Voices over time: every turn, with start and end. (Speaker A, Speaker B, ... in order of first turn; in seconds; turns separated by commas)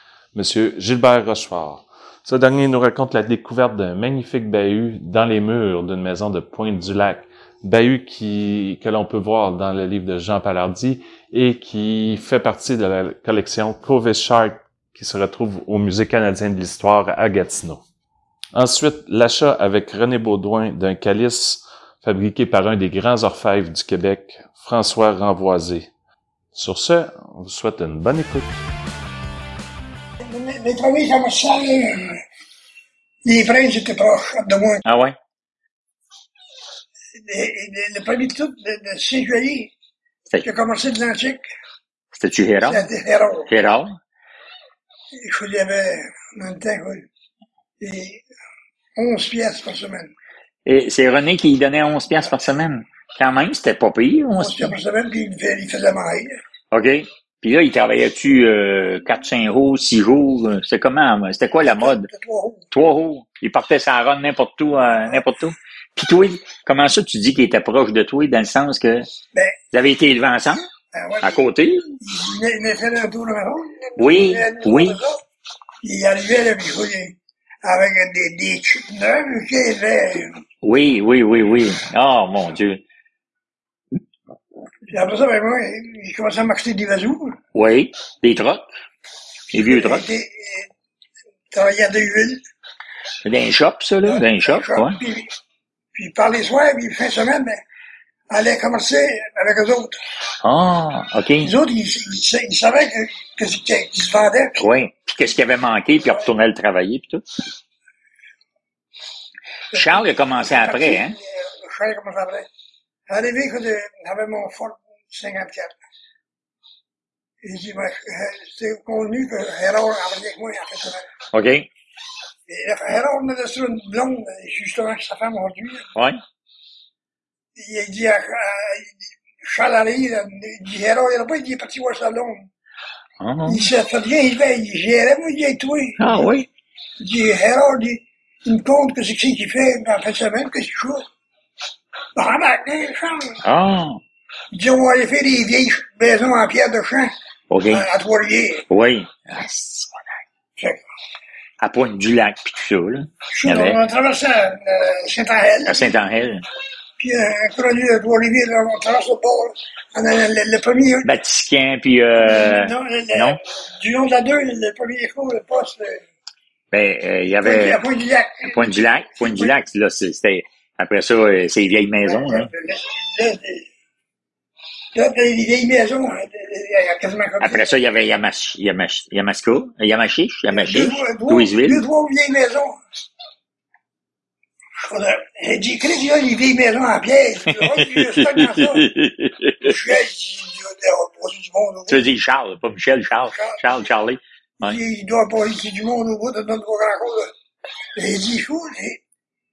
Speaker A: 0.3-17.8, Speaker A: 18.5-25.9, Speaker A: 26.5-28.6, Speaker B: 30.2-32.2, Speaker B: 33.2-34.8, Speaker C: 34.9-35.2, Speaker B: 37.2-39.7, Speaker B: 40.4-41.4, Speaker C: 42.1-42.8, Speaker B: 42.6-43.5, Speaker C: 43.5-44.0, Speaker B: 45.1-47.1, Speaker B: 47.8-48.2, Speaker B: 49.0-50.1, Speaker C: 50.6-54.7, Speaker B: 54.4-56.4, Speaker C: 56.7-62.1, Speaker B: 61.6-62.7, Speaker C: 62.7-69.1, Speaker B: 65.0-65.2, Speaker B: 69.3-69.6, Speaker C: 69.7-70.7, Speaker B: 70.9-71.4, Speaker C: 71.2-71.8, Speaker B: 72.0-75.2, Speaker C: 74.0-75.0, Speaker B: 75.8-80.4, Speaker C: 80.6-82.8, Speaker B: 84.9-87.4, Speaker C: 87.5-88.7, Speaker C: 89.5-90.0, Speaker B: 89.6-90.7, Speaker B: 91.5-92.4, Speaker C: 93.2-95.0, Speaker B: 94.0-95.3, Speaker B: 95.9-97.6, Speaker B: 98.3-100.0, Speaker C: 100.4-101.5, Speaker B: 101.4-104.6, Speaker C: 104.6-107.2, Speaker C: 109.7-111.2, Speaker B: 109.7-112.5, Speaker B: 113.1-115.8, Speaker B: 117.4-121.0, Speaker C: 121.3-121.7, Speaker B: 122.5-125.9, Speaker C: 125.9-126.2, Speaker B: 127.5-132.5, Speaker C: 133.2-133.7, Speaker B: 133.4-136.3, Speaker C: 136.0-136.5, Speaker B: 137.0-141.0, Speaker B: 142.2-143.4, Speaker C: 143.4-144.0, Speaker B: 144.5-147.1, Speaker C: 147.5-147.9, Speaker B: 147.7-148.7, Speaker C: 148.7-150.0, Speaker B: 150.6-150.8, Speaker C: 151.6-153.8, Speaker B: 153.3-155.9, Speaker C: 155.7-156.4, Speaker B: 157.0-161.1, Speaker C: 161.0-163.4, Speaker B: 162.2-166.0, Speaker C: 166.7-167.8, Speaker B: 167.4-169.5, Speaker C: 168.5-172.5, Speaker B: 172.1-173.7, Speaker B: 174.9-177.7, Speaker C: 177.4-181.8, Speaker B: 180.5-182.8, Speaker B: 184.8-188.9, Speaker C: 187.4-189.8, Speaker B: 189.6-192.1, Speaker C: 191.9-194.8, Speaker B: 193.3-193.8, Speaker B: 194.6-197.3, Speaker B: 197.9-199.0